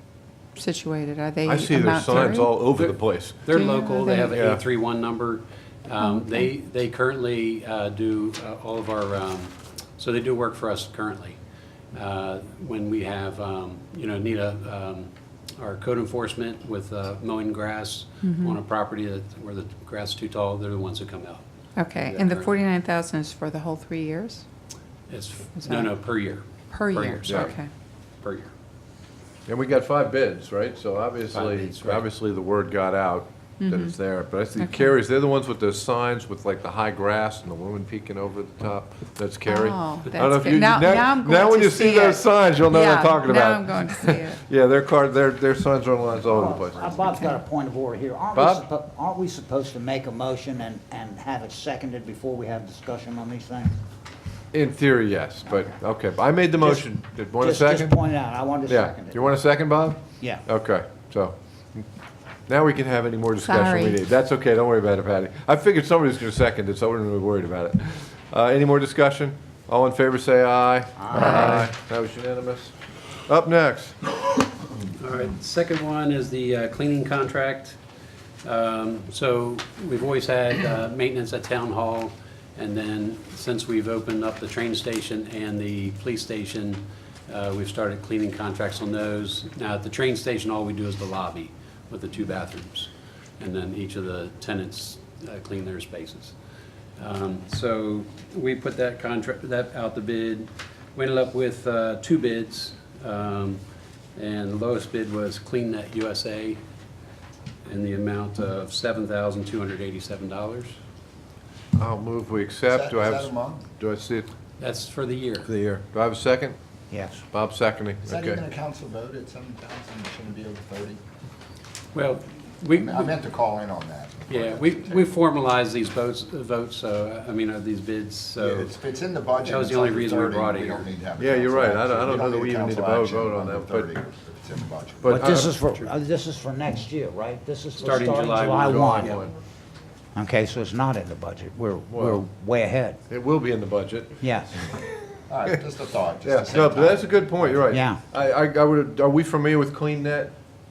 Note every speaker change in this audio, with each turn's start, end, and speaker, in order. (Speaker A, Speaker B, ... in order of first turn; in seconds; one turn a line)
Speaker A: 0.6-2.5
Speaker B: 1.4-3.5
Speaker C: 2.1-11.4
Speaker A: 3.5-4.4
Speaker B: 4.3-4.6
Speaker A: 6.0-6.5
Speaker C: 11.9-21.4
Speaker A: 18.2-18.6
Speaker A: 21.8-24.4
Speaker C: 22.0-22.5
Speaker C: 25.1-27.6
Speaker A: 25.6-26.0
Speaker A: 26.7-27.7
Speaker B: 27.2-27.5
Speaker C: 28.2-28.5
Speaker B: 29.5-47.1
Speaker C: 31.3-32.0
Speaker A: 33.6-34.0
Speaker A: 34.6-34.9
Speaker A: 39.5-44.4
Speaker D: 46.3-53.7
Speaker B: 48.3-48.7
Speaker B: 54.5-61.9
Speaker D: 55.5-55.8
Speaker D: 56.6-59.5
Speaker B: 62.5-74.0
Speaker A: 63.4-64.0
Speaker D: 71.0-71.7
Speaker A: 71.1-71.6
Speaker C: 75.0-77.8
Speaker C: 78.4-96.4
Speaker C: 97.0-103.6
Speaker C: 104.1-106.6
Speaker C: 107.7-110.8
Speaker B: 111.8-114.3
Speaker E: 112.7-113.7
Speaker C: 114.6-115.5
Speaker B: 115.4-116.6
Speaker D: 116.9-117.2
Speaker B: 117.3-118.4
Speaker E: 118.0-121.0
Speaker C: 121.9-123.1
Speaker E: 122.7-125.2
Speaker C: 124.3-128.8
Speaker E: 128.4-135.4
Speaker C: 129.4-130.9
Speaker B: 131.2-133.9
Speaker B: 135.0-135.5
Speaker D: 135.0-139.2
Speaker C: 137.8-139.2
Speaker B: 138.5-139.3
Speaker D: 140.1-143.0
Speaker B: 141.9-142.2
Speaker B: 143.1-144.8
Speaker D: 144.2-144.6
Speaker E: 145.3-147.6
Speaker B: 146.2-150.3
Speaker D: 147.7-148.0